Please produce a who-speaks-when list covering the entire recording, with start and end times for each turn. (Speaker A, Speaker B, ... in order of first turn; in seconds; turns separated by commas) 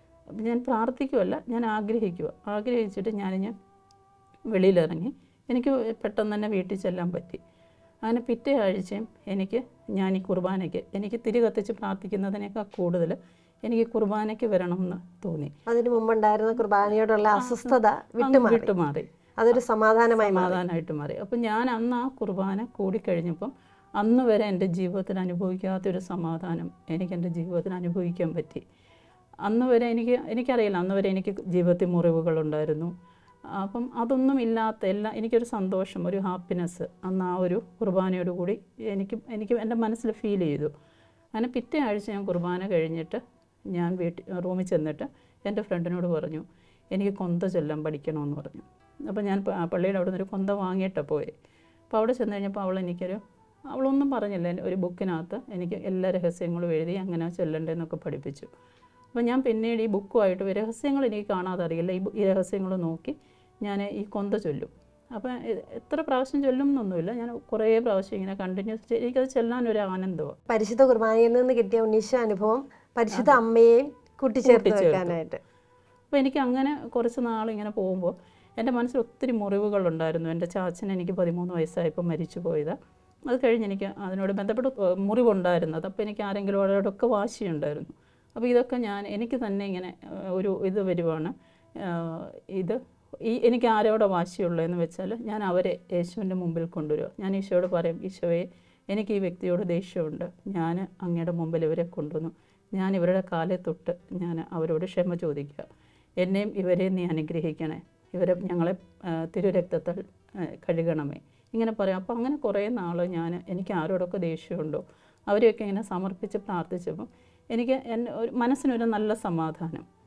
Speaker A: 0.4-3.5, Speaker A: 4.5-7.4, Speaker A: 8.0-15.5, Speaker B: 15.7-18.7, Speaker A: 17.4-19.1, Speaker B: 19.4-20.6, Speaker A: 20.2-28.6, Speaker A: 29.4-32.9, Speaker A: 33.5-40.7, Speaker A: 41.3-43.2, Speaker A: 43.7-51.3, Speaker A: 51.9-58.5, Speaker A: 59.1-70.3, Speaker B: 70.5-75.4, Speaker A: 73.1-73.4, Speaker A: 74.4-75.2, Speaker A: 76.1-82.8, Speaker A: 83.3-105.7, Speaker A: 106.2-119.8